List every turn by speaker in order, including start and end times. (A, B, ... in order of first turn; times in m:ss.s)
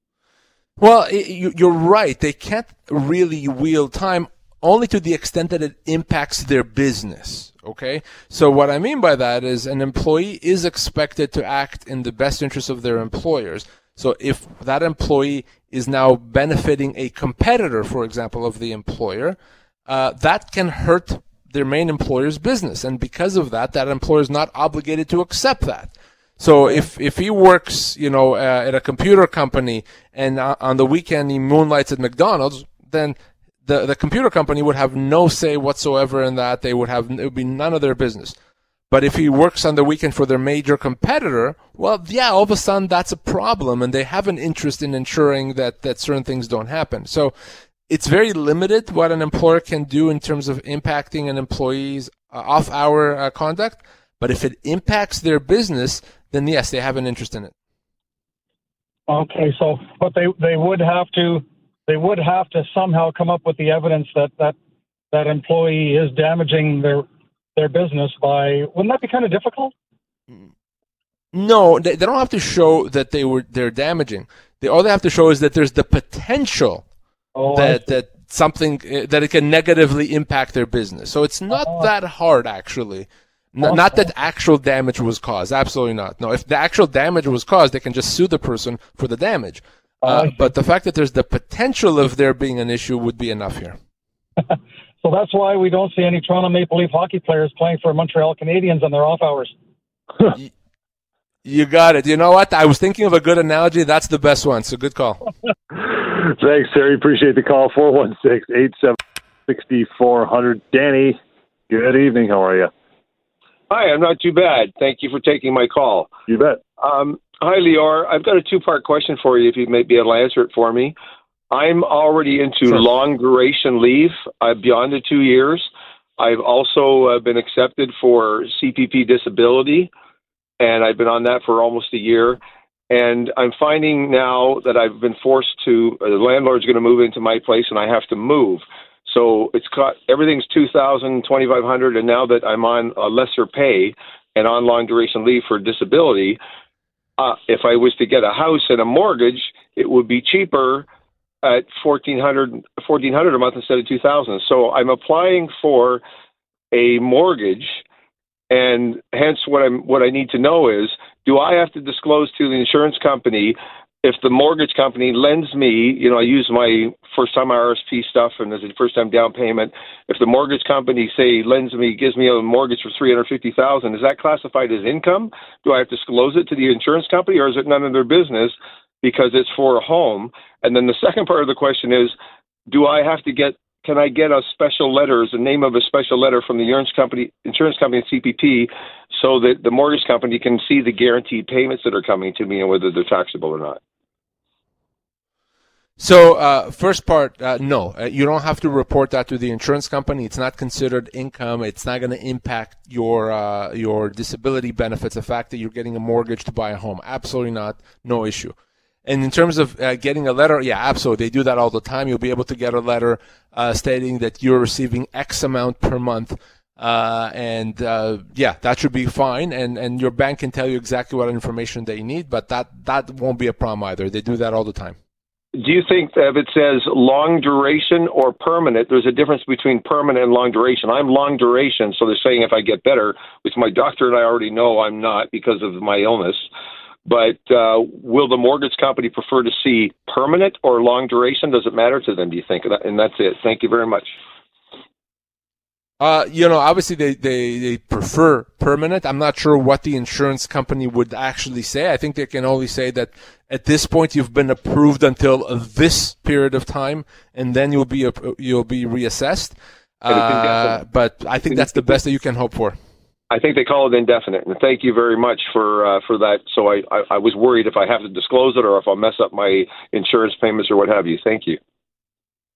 0:00.8-0:38.4 A
0:38.9-0:47.3 A
0:47.9-0:57.5 A
0:59.1-1:04.6 B
1:05.1-1:09.7 B
1:11.3-1:16.8 A
1:17.4-1:17.9 B
1:17.5-1:33.8 A
1:21.5-1:21.9 B
1:23.6-1:24.1 B
1:30.0-1:30.5 B
1:34.5-1:39.5 B
1:41.4-1:45.2 A
1:45.7-1:51.2 C
1:51.7-1:52.7 C
1:53.7-1:56.1 D
1:56.3-1:56.6 C
1:56.8-2:01.0 D
2:01.5-2:09.9 D
2:10.6-2:12.4 D
2:12.9-2:26.4 D
2:27.2-2:30.9 D
2:31.4-2:36.0 D
2:36.7-2:37.8 D
2:38.5-3:02.2 D
3:02.7-3:13.8 D
3:16.0-3:28.5 A
3:29.1-3:45.0 A
3:45.6-3:56.5 D
3:57.1-4:04.2 D
4:06.0-4:22.8 A
4:20.1-4:20.8 D
4:21.5-4:22.0 D
4:23.3-4:31.6 D